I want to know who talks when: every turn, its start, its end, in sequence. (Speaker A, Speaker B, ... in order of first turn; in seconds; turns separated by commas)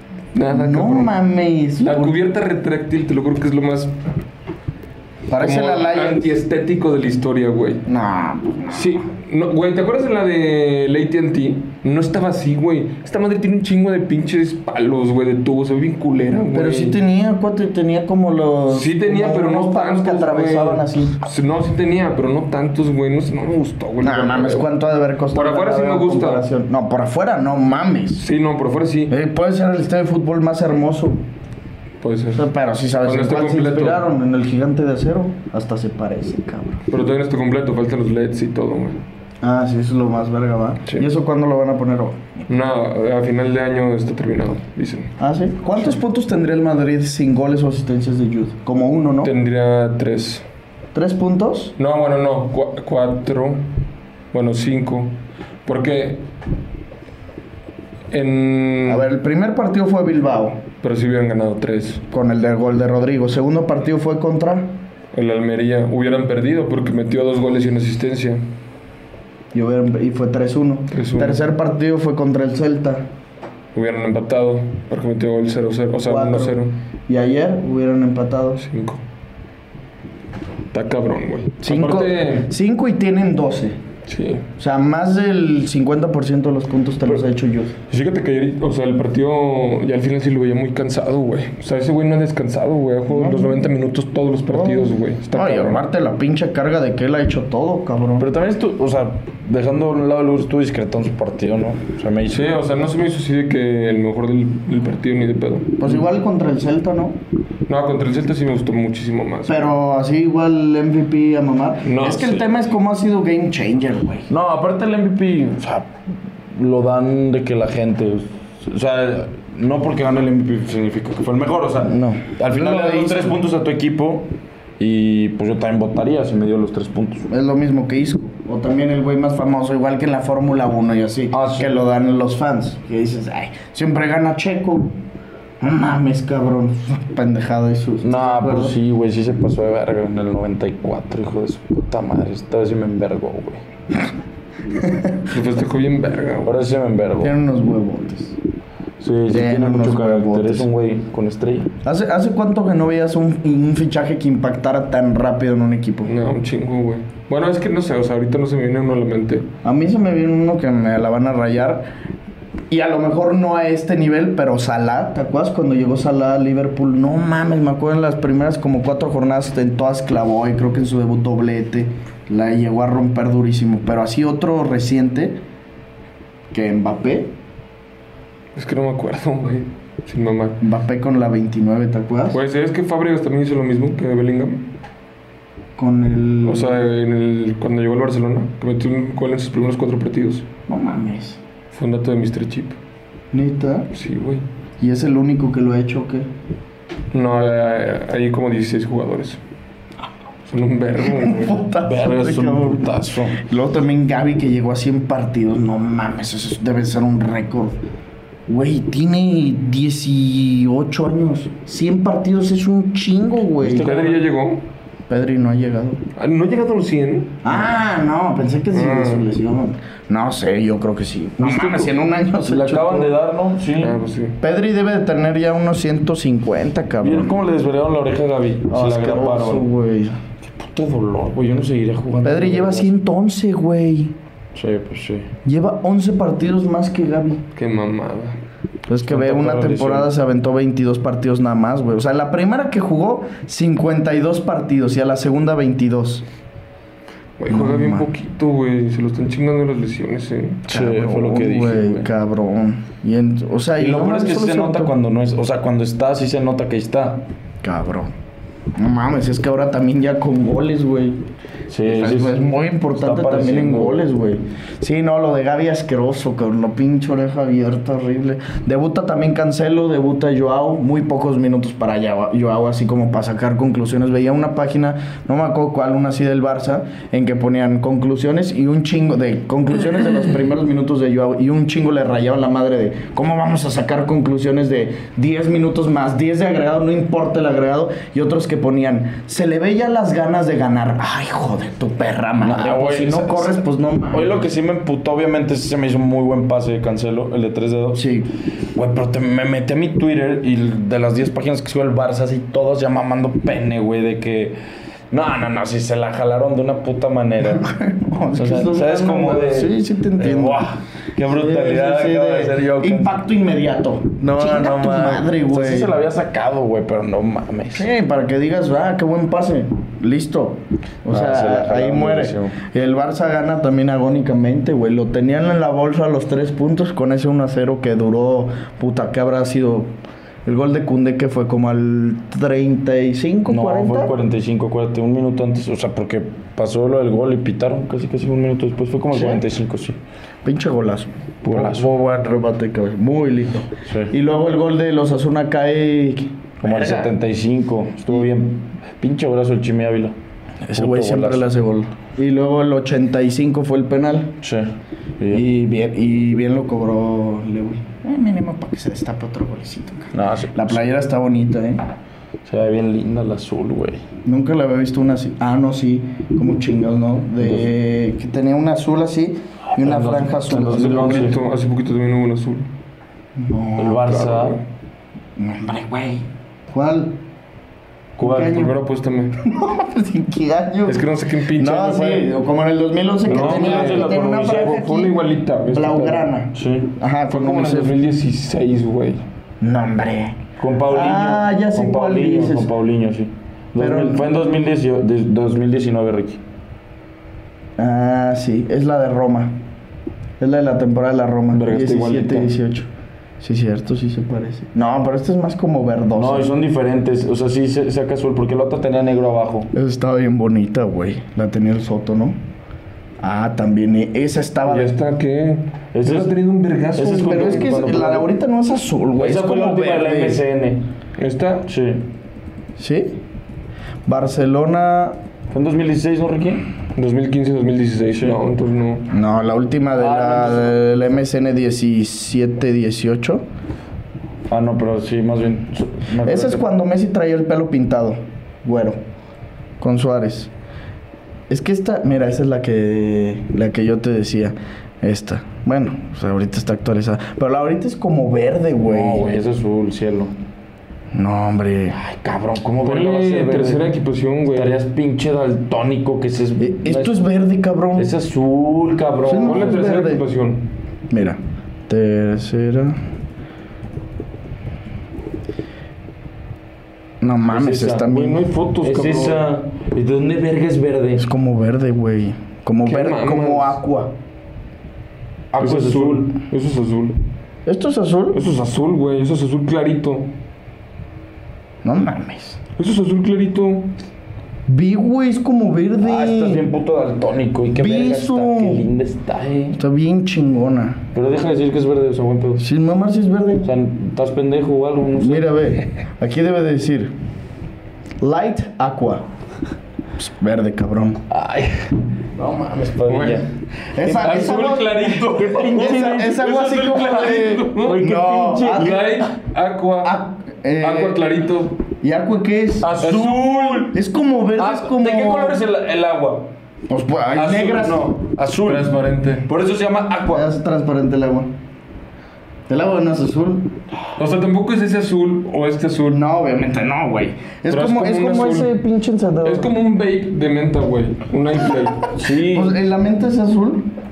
Speaker A: 0.3-1.1, Speaker B: 0.5-2.2, Speaker A: 1.8-3.9, Speaker B: 5.3-6.3, Speaker A: 5.4-7.8, Speaker B: 7.9-9.0, Speaker A: 8.7-17.0, Speaker B: 16.5-21.2, Speaker A: 18.7-24.7, Speaker B: 24.0-28.2, Speaker A: 25.3-26.4, Speaker A: 28.2-29.1, Speaker B: 29.1-31.2, Speaker A: 32.0-32.5, Speaker B: 32.4-36.8, Speaker A: 33.0-34.0, Speaker A: 36.9-39.0, Speaker B: 39.4-42.5, Speaker A: 42.5-45.1, Speaker B: 45.2-49.3, Speaker A: 49.2-50.4, Speaker B: 50.9-51.7, Speaker A: 51.8-53.7, Speaker A: 54.3-55.1, Speaker A: 55.6-56.2, Speaker A: 58.1-59.0, Speaker B: 58.9-60.6, Speaker A: 60.8-62.0, Speaker B: 62.1-64.7, Speaker A: 65.1-68.4, Speaker B: 69.5-73.0, Speaker A: 70.9-71.4, Speaker A: 73.7-76.7, Speaker B: 76.1-78.6, Speaker A: 78.6-79.0, Speaker A: 80.7-82.5, Speaker B: 81.6-83.8, Speaker A: 84.1-84.5, Speaker B: 84.6-87.7, Speaker A: 87.9-95.8, Speaker B: 93.1-93.7, Speaker B: 94.5-98.3, Speaker C: 98.2-102.5, Speaker A: 102.3-105.7, Speaker B: 105.8-107.2, Speaker A: 107.7-109.7, Speaker B: 109.5-114.3, Speaker A: 111.8-112.5, Speaker C: 114.3-115.9, Speaker C: 116.5-127.3, Speaker B: 121.8-123.4, Speaker B: 127.3-134.9, Speaker C: 131.3-131.8, Speaker B: 135.6-138.7, Speaker C: 138.0-143.6, Speaker B: 144.8-145.2, Speaker A: 145.3-146.6, Speaker C: 146.4-147.3, Speaker B: 147.2-148.3, Speaker C: 149.0-151.7, Speaker B: 149.3-150.7, Speaker B: 151.8-156.1, Speaker A: 156.0-159.5, Speaker B: 159.6-161.9, Speaker B: 162.7-175.4, Speaker B: 176.5-177.3, Speaker A: 178.5-180.6, Speaker B: 180.6-182.4, Speaker A: 182.3-184.6, Speaker B: 185.8-186.8, Speaker A: 186.4-190.4, Speaker B: 190.7-191.4, Speaker A: 191.7-192.8, Speaker B: 193.3-193.9, Speaker A: 193.9-194.4, Speaker B: 194.8-196.3, Speaker A: 197.1-199.4, Speaker A: 200.5-201.7, Speaker B: 201.0-207.8, Speaker C: 201.8-203.4, Speaker B: 208.5-214.1, Speaker A: 213.6-214.6, Speaker C: 213.7-214.2, Speaker B: 215.1-216.0, Speaker A: 216.2-217.4, Speaker B: 217.4-223.1, Speaker A: 218.7-219.3, Speaker C: 221.4-224.0, Speaker A: 223.8-224.3, Speaker B: 224.4-227.3, Speaker C: 227.0-229.7, Speaker B: 228.7-230.2, Speaker C: 230.4-232.9, Speaker B: 232.2-234.1, Speaker C: 234.5-235.3, Speaker B: 235.4-237.4, Speaker A: 237.5-238.4, Speaker B: 238.9-246.2, Speaker C: 239.0-240.1, Speaker A: 247.4-250.6, Speaker B: 247.5-248.1, Speaker C: 250.7-252.1, Speaker B: 250.7-254.9, Speaker C: 253.8-257.2, Speaker B: 257.6-258.1, Speaker B: 258.7-261.2, Speaker C: 261.7-262.4, Speaker B: 261.8-294.4, Speaker C: 262.9-264.1, Speaker C: 292.4-298.0, Speaker B: 297.9-298.3, Speaker C: 298.7-304.6, Speaker C: 305.1-307.6, Speaker B: 307.5-310.6, Speaker C: 308.4-313.1, Speaker B: 311.2-315.9, Speaker C: 314.3-317.9, Speaker B: 317.7-329.9, Speaker C: 321.1-322.6, Speaker B: 330.4-334.1, Speaker C: 333.4-340.0, Speaker B: 339.1-339.4, Speaker B: 340.4-347.1, Speaker C: 341.4-341.9, Speaker C: 343.8-344.1, Speaker C: 346.6-350.1, Speaker B: 350.6-354.3, Speaker C: 350.7-351.5, Speaker C: 354.4-355.4, Speaker B: 355.3-361.8, Speaker C: 360.1-360.8, Speaker C: 362.4-364.0, Speaker B: 364.2-371.3, Speaker C: 367.4-367.7, Speaker C: 369.8-371.4, Speaker A: 370.7-372.7, Speaker B: 373.4-374.2, Speaker C: 373.8-374.6, Speaker A: 374.0-374.6, Speaker B: 375.4-377.1, Speaker C: 378.2-378.6, Speaker B: 378.2-378.7, Speaker A: 378.3-379.3, Speaker B: 379.4-385.2, Speaker A: 380.9-382.3, Speaker C: 383.2-384.8, Speaker A: 383.2-386.2, Speaker B: 385.7-387.9, Speaker C: 386.5-386.9, Speaker A: 387.3-389.2, Speaker B: 389.6-392.7, Speaker C: 390.6-396.4, Speaker B: 393.8-394.3, Speaker B: 397.8-399.5, Speaker B: 400.4-402.9, Speaker A: 401.5-402.5, Speaker B: 403.4-406.5, Speaker C: 406.2-409.7, Speaker B: 409.7-412.4, Speaker B: 413.2-414.9, Speaker A: 414.6-417.7, Speaker C: 415.9-416.3, Speaker C: 416.9-418.3, Speaker B: 417.0-420.4, Speaker C: 419.2-420.8, Speaker A: 421.2-421.6, Speaker C: 421.6-422.0, Speaker B: 422.8-423.2, Speaker B: 424.1-425.2, Speaker C: 425.5-426.6, Speaker A: 426.9-429.1, Speaker B: 429.1-433.4, Speaker C: 429.9-431.2, Speaker C: 434.5-436.6, Speaker B: 436.2-439.0, Speaker B: 439.8-440.5, Speaker B: 441.5-449.2, Speaker C: 448.8-450.3, Speaker B: 451.1-452.0, Speaker C: 451.9-453.9, Speaker A: 452.8-454.7, Speaker C: 454.5-457.2, Speaker B: 456.6-458.1, Speaker C: 457.9-459.9, Speaker B: 459.2-460.2, Speaker A: 459.4-460.6, Speaker B: 461.1-461.4, Speaker B: 461.9-463.0, Speaker B: 467.2-468.5, Speaker C: 467.5-471.3, Speaker A: 468.1-469.4, Speaker B: 471.2-474.1, Speaker A: 472.8-473.8, Speaker C: 475.5-476.3, Speaker A: 475.6-477.2, Speaker B: 477.6-478.4, Speaker A: 478.3-480.3, Speaker B: 481.8-482.6, Speaker A: 482.8-483.9, Speaker B: 484.7-486.6, Speaker C: 486.0-489.8, Speaker B: 487.8-488.9, Speaker B: 489.8-491.0, Speaker C: 491.1-492.6, Speaker B: 492.6-493.7, Speaker C: 493.6-495.6, Speaker B: 495.2-497.1, Speaker B: 498.2-499.2, Speaker B: 500.2-501.2, Speaker C: 501.3-503.5, Speaker A: 503.1-503.4, Speaker B: 503.9-509.1, Speaker C: 504.0-509.1, Speaker A: 504.1-508.0, Speaker A: 508.6-510.2, Speaker B: 510.0-511.2, Speaker A: 510.8-511.8, Speaker B: 512.0-512.9, Speaker C: 512.8-513.9, Speaker A: 512.9-513.9, Speaker B: 513.9-515.6, Speaker C: 514.6-516.5, Speaker B: 516.9-518.2, Speaker C: 517.3-520.5, Speaker A: 518.6-519.5, Speaker B: 520.3-521.5, Speaker B: 522.7-523.7, Speaker A: 524.2-526.2, Speaker B: 526.1-529.7, Speaker A: 527.7-528.7, Speaker A: 529.4-532.1, Speaker C: 532.1-532.8, Speaker B: 532.3-533.9